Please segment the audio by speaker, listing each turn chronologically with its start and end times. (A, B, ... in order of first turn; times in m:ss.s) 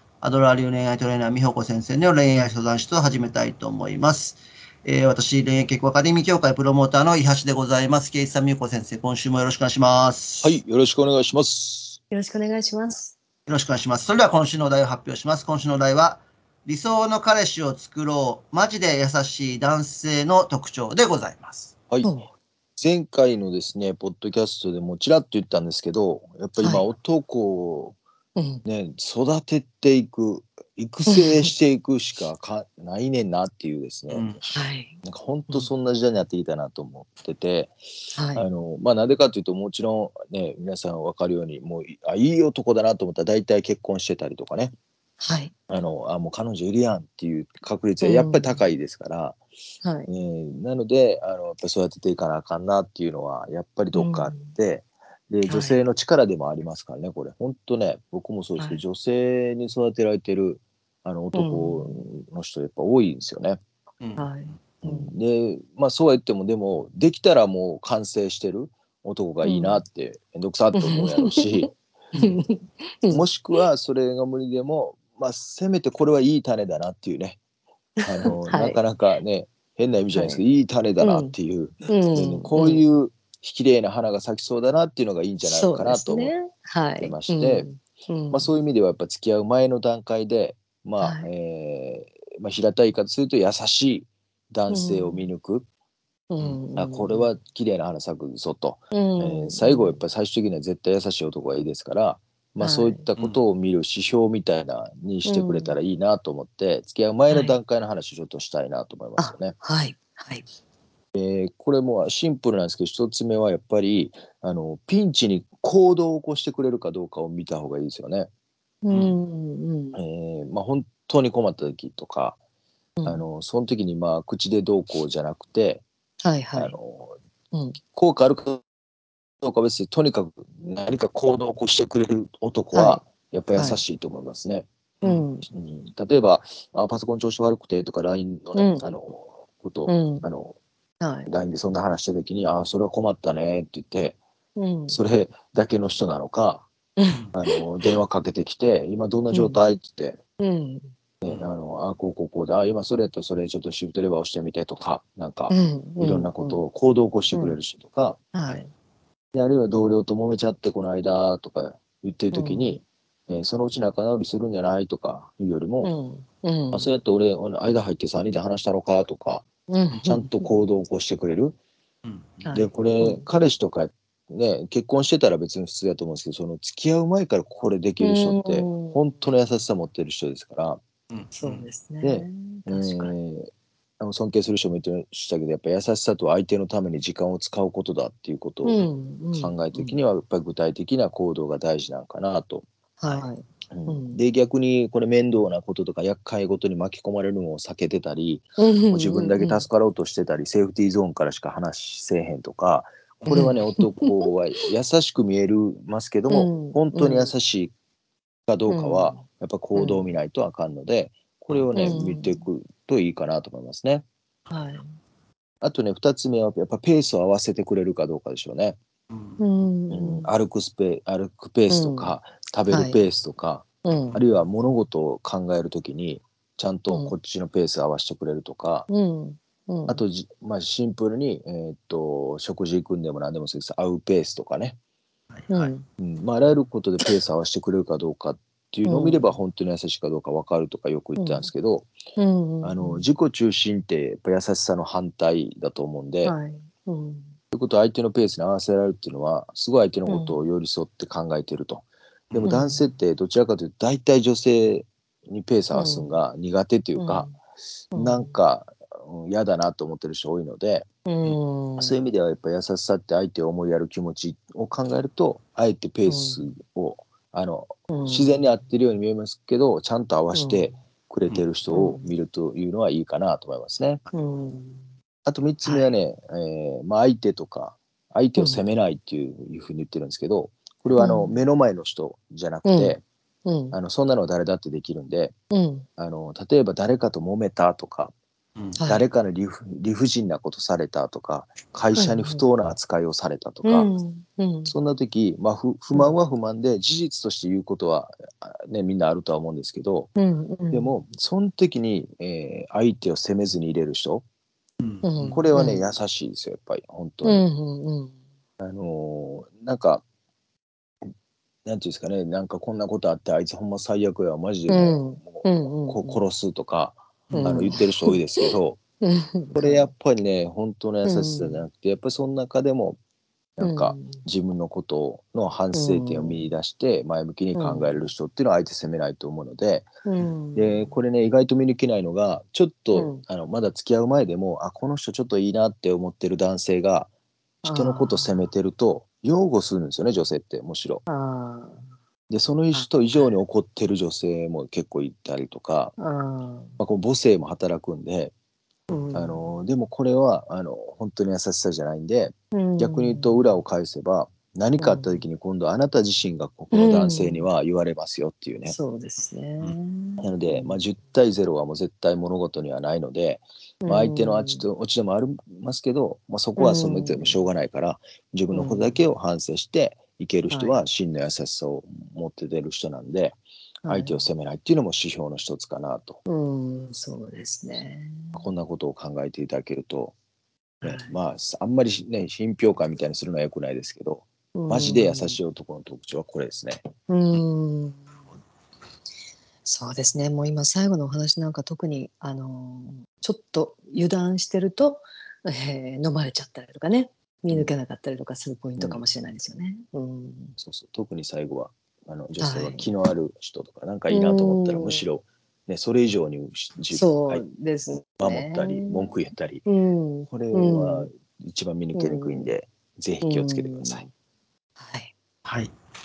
0:00.2-0:10.6 A
0:10.4-0:12.0 B
0:12.1-0:13.1 C
0:13.5-0:21.7 A
0:22.0-0:22.3 C
0:22.8-0:28.0 B
0:26.6-0:26.9 C
0:28.4-0:28.6 C
0:28.6-0:34.3 B
0:31.1-0:31.5 C
0:34.1-0:34.4 A
0:34.5-0:35.0 C
0:35.0-0:37.8 B
0:38.1-0:38.5 C
0:38.3-0:44.7 B
0:45.2-0:45.5 C
0:45.7-0:49.4 B
0:48.0-0:48.6 C
0:49.8-0:50.1 C
0:50.1-1:03.6 B
0:53.9-0:54.5 C
0:55.5-0:55.8 C
1:01.3-1:02.0 C
1:04.0-1:04.3 A
1:04.2-1:05.1 C
1:04.8-1:12.3 B
1:09.4-1:09.8 C
1:10.7-1:11.4 C
1:12.2-1:13.3 C
1:13.1-1:17.4 B
1:18.1-1:26.3 B
1:18.4-1:18.8 C
1:20.1-1:20.4 C
1:21.0-1:21.3 C
1:21.9-1:22.8 C
1:25.4-1:28.5 C
1:27.0-1:27.7 B
1:28.3-1:35.7 B
1:31.0-1:31.3 C
1:34.7-1:35.3 C
1:36.3-1:37.3 C
1:36.8-1:49.6 B
1:38.9-1:40.0 C
1:42.6-1:43.0 C
1:45.2-1:45.8 C
1:47.3-1:47.6 C
1:49.2-1:50.4 C
1:51.2-1:58.3 B
1:58.8-2:00.0 C
1:58.9-1:59.2 A
1:59.9-2:02.4 B
2:03.0-2:03.2 C
2:03.0-2:05.8 B
2:06.2-2:06.8 C
2:06.6-2:07.2 B
2:07.5-2:07.8 C
2:07.9-2:08.6 B
2:09.4-2:14.7 B
2:12.7-2:13.0 C
2:13.5-2:13.8 C
2:15.0-2:15.5 C
2:15.5-2:20.6 B
2:18.5-2:18.9 C
2:19.9-2:20.2 C
2:21.0-2:21.3 C
2:21.3-2:24.2 B
2:24.6-2:25.0 C
2:24.9-2:26.7 B
2:27.3-2:30.2 B
2:29.3-2:29.6 C
2:30.4-2:30.9 C
2:31.2-2:38.2 B
2:35.5-2:36.6 C
2:37.3-2:37.6 C
2:38.3-2:38.7 C
2:39.3-2:45.9 B
2:42.3-2:42.8 C
2:45.8-2:46.9 C
2:46.7-2:51.6 B
2:49.7-2:50.5 C
2:52.0-2:52.5 A
2:52.4-2:53.3 C
2:52.5-3:00.8 B
2:58.0-2:59.0 C
3:01.1-3:01.7 A
3:01.3-3:03.1 C
3:02.0-3:03.5 B
3:04.0-3:27.7 B
3:08.6-3:10.0 C
3:13.0-3:14.2 C
3:18.6-3:19.6 C
3:23.3-3:24.1 C
3:26.3-3:27.3 C
3:28.5-3:34.0 B
3:28.7-3:29.2 C
3:29.8-3:30.2 C
3:31.8-3:32.4 C
3:34.5-3:34.9 C
3:35.6-3:38.8 B
3:39.1-3:39.4 A
3:39.4-3:40.3 C
3:39.9-3:48.9 B
3:41.7-3:42.1 C
3:42.7-3:43.0 C
3:43.8-3:44.2 C
3:46.9-3:47.2 C
3:48.9-3:50.0 C
3:49.9-3:54.8 B
3:55.3-3:55.7 A
3:55.5-3:55.8 C
3:55.8-4:01.9 B
3:58.9-3:59.3 C
4:01.2-4:01.5 C
4:02.2-4:03.1 C
4:02.6-4:06.4 B
4:06.2-4:07.3 C
4:07.5-4:17.3 B
4:10.1-4:10.4 C
4:12.4-4:12.8 C
4:15.7-4:16.2 C
4:17.0-4:17.4 C
4:17.9-4:18.3 C
4:17.9-4:20.9 B
4:21.1-4:21.9 C
4:21.8-4:34.0 B
4:26.0-4:26.4 C
4:27.9-4:28.4 C
4:30.3-4:30.8 C
4:31.7-4:32.1 C
4:34.1-4:34.9 C
4:35.2-4:43.0 B
4:35.6-4:36.0 C
4:38.4-4:38.6 C
4:40.9-4:41.4 C
4:42.6-4:43.8 C
4:43.7-4:45.4 B
4:45.5-4:45.9 C
4:46.0-4:48.1 B
4:48.8-4:49.1 C
4:48.9-4:53.9 B
4:51.9-4:52.4 C
4:53.6-4:54.7 C
4:54.7-5:00.1 B
5:00.2-5:00.9 C
5:00.7-5:04.2 B
5:04.8-5:05.4 A
5:05.0-5:05.8 C
5:05.2-5:07.4 B
5:07.2-5:08.1 C
5:08.6-5:10.0 B
5:11.6-5:18.8 B
5:14.7-5:16.2 C
5:17.3-5:17.6 A
5:17.3-5:18.5 C
5:19.0-5:19.9 C
5:19.6-5:23.0 B
5:21.0-5:21.6 C
5:23.6-5:29.9 B
5:23.6-5:24.2 C
5:25.7-5:26.4 C
5:27.6-5:27.9 C
5:30.0-5:31.0 C
5:30.6-5:37.1 B
5:32.9-5:33.2 C
5:37.6-5:38.5 C
5:37.6-5:41.0 B
5:41.1-5:41.8 C
5:42.3-5:46.0 B
5:42.7-5:43.3 C
5:46.0-5:46.7 C
5:46.8-5:48.3 B
5:48.9-5:49.6 C
5:49.1-5:58.8 B
5:52.5-5:53.5 C
5:54.8-5:55.2 C
5:56.7-5:57.5 C
5:58.7-6:00.8 C
6:00.2-6:16.2 B
6:03.8-6:04.6 C
6:06.6-6:07.4 C
6:08.5-6:09.0 C
6:10.5-6:10.8 C
6:13.8-6:14.2 C
6:16.3-6:18.4 C
6:18.4-6:20.1 B
6:20.8-6:21.1 C
6:20.8-6:26.9 B
6:24.5-6:25.4 C
6:27.1-6:28.0 C
6:29.6-6:40.6 C
6:38.8-6:39.0 B
6:40.6-6:47.4 B
6:42.4-6:42.9 C
6:44.1-6:45.0 C
6:46.9-6:51.1 C
6:48.2-6:49.7 B
6:50.3-6:54.1 B
6:51.9-6:52.6 C
6:53.2-6:54.1 C
6:54.8-6:55.1 C
6:55.4-6:55.7 A